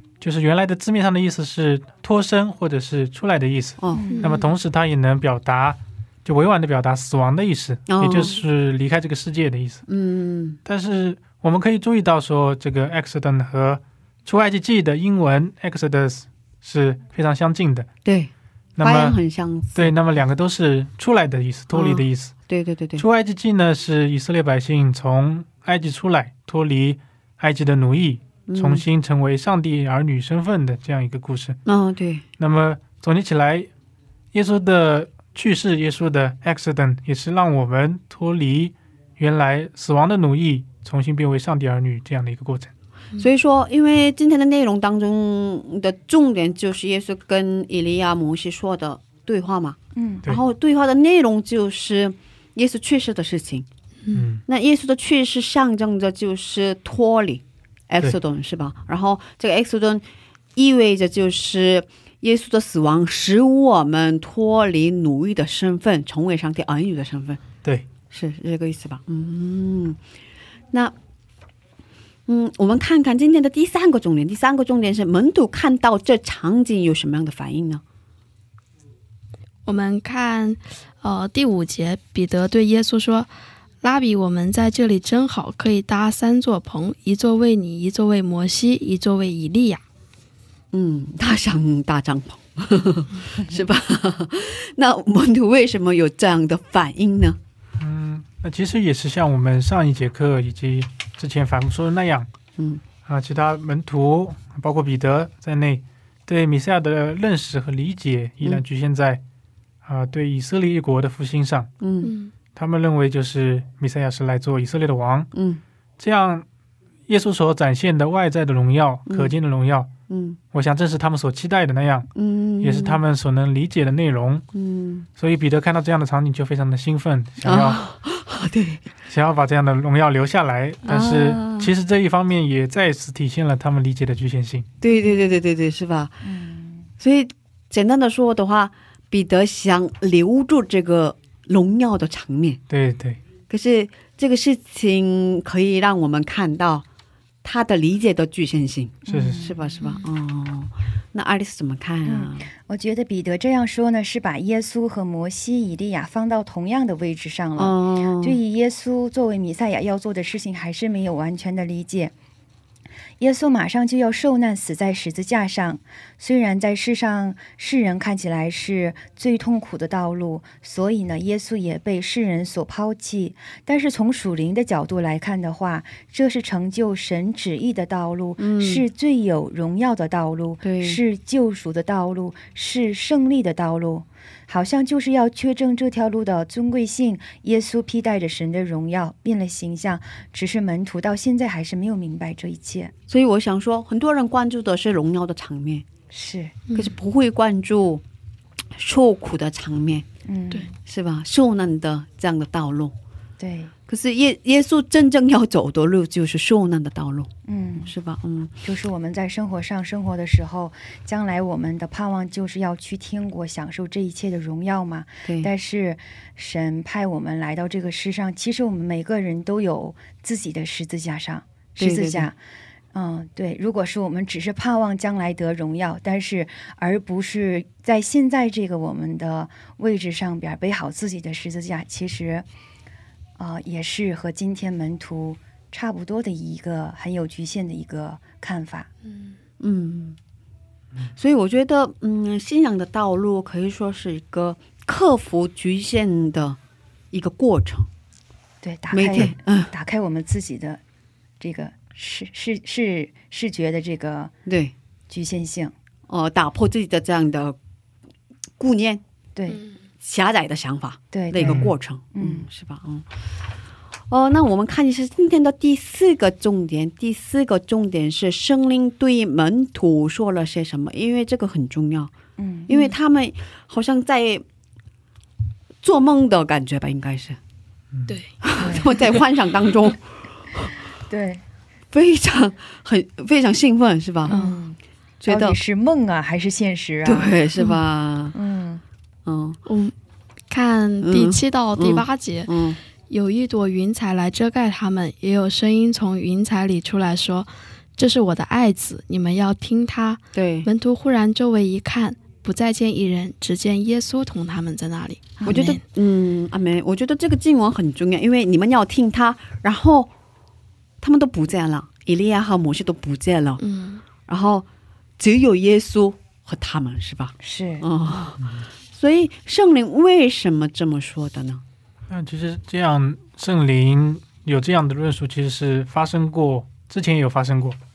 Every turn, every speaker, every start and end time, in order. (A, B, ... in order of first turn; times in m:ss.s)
0:00.2-0:09.8 A
0:03.8-0:04.1 B
0:03.9-0:04.3 C
0:04.1-0:04.5 D
0:07.9-0:08.4 B
0:09.9-0:10.6 B
0:10.6-0:17.9 A
0:18.0-0:20.0 B
0:18.8-0:19.2 A
0:19.7-0:22.3 A
0:21.7-0:23.0 B
0:23.0-0:31.6 A
0:28.5-0:28.8 B
0:31.7-0:32.2 B
0:32.4-0:33.7 A
0:34.3-0:42.7 A
0:43.2-0:53.7 B
0:50.0-0:50.3 C
0:54.1-0:54.4 A
0:54.5-1:00.0 B
1:00.6-1:07.4 B
1:08.1-1:10.0 B
1:12.3-1:17.8 B
1:19.6-1:29.8 D
1:30.7-1:37.4 B
1:37.8-1:42.3 A
1:42.6-1:42.8 B
1:43.1-1:49.2 A
1:49.8-1:51.7 A
1:51.8-1:52.1 B
1:52.0-1:52.3 D
1:52.6-1:55.3 A
1:55.3-1:55.6 B
1:56.0-1:56.4 A
1:57.1-1:59.9 A
1:59.1-1:59.3 B
2:00.1-2:00.4 B
2:00.5-2:02.1 A
2:02.2-2:03.0 B
2:02.6-2:04.4 A
2:04.5-2:05.1 B
2:05.2-2:07.8 A
2:07.4-2:08.9 B
2:09.1-2:14.7 A
2:10.8-2:11.7 B
2:14.8-2:16.3 B
2:14.9-2:15.4 C
2:16.2-2:16.9 C
2:17.0-2:22.6 B
2:22.7-2:23.2 A
2:23.5-2:26.8 B
2:27.4-2:32.5 B
2:29.1-2:29.9 C
2:29.1-2:29.4 A
2:32.0-2:42.1 C
2:37.6-2:38.4 B
2:43.2-3:12.9 C
2:58.4-2:58.9 B
3:00.6-3:01.0 B
3:13.1-3:15.8 B
3:16.1-3:16.5 C
3:16.7-3:16.9 D
3:16.8-3:18.0 B
3:18.7-3:20.0 B
3:20.3-3:20.7 C
3:20.9-3:23.0 B
3:23.4-3:23.7 C
3:23.9-3:27.3 B
3:27.5-3:27.9 C
3:27.8-3:28.6 B
3:28.6-3:42.4 C
3:35.2-3:35.5 B
3:41.8-3:42.3 B
3:42.9-3:52.5 C
3:53.4-3:58.9 C
3:59.6-4:00.2 B
4:01.2-4:06.6 B
4:07.1-4:07.9 B
4:08.6-4:10.8 C
4:08.9-4:09.7 B
4:11.4-4:14.3 C
4:14.5-4:14.7 B
4:15.1-4:15.7 C
4:16.1-4:17.6 B
4:18.6-4:19.0 B
4:19.4-4:19.6 C
4:20.0-4:23.1 B
4:21.1-4:22.5 C
4:21.4-4:21.7 A
4:24.1-4:32.1 B
4:32.4-4:32.9 C
4:32.7-4:34.4 B
4:35.8-4:37.4 B
4:38.1-4:38.4 D
4:38.4-4:40.8 B
4:38.6-4:38.9 C
4:41.1-4:41.4 C
4:41.9-4:44.4 B
4:44.3-4:47.4 C
4:44.3-4:44.7 D
4:45.2-4:45.6 B
4:47.0-4:48.4 B
4:48.3-4:48.8 C
4:49.3-4:49.6 B
4:49.6-4:50.0 D
4:50.5-4:52.5 D
4:51.0-4:52.8 B
4:53.0-5:05.8 D
5:00.3-5:00.7 B
5:05.4-5:05.7 C
5:05.5-5:10.1 B
5:11.0-5:13.6 B
5:13.6-5:14.0 D
5:14.3-5:14.6 B
5:15.2-5:21.6 B
5:17.4-5:17.9 C
5:22.1-5:27.8 A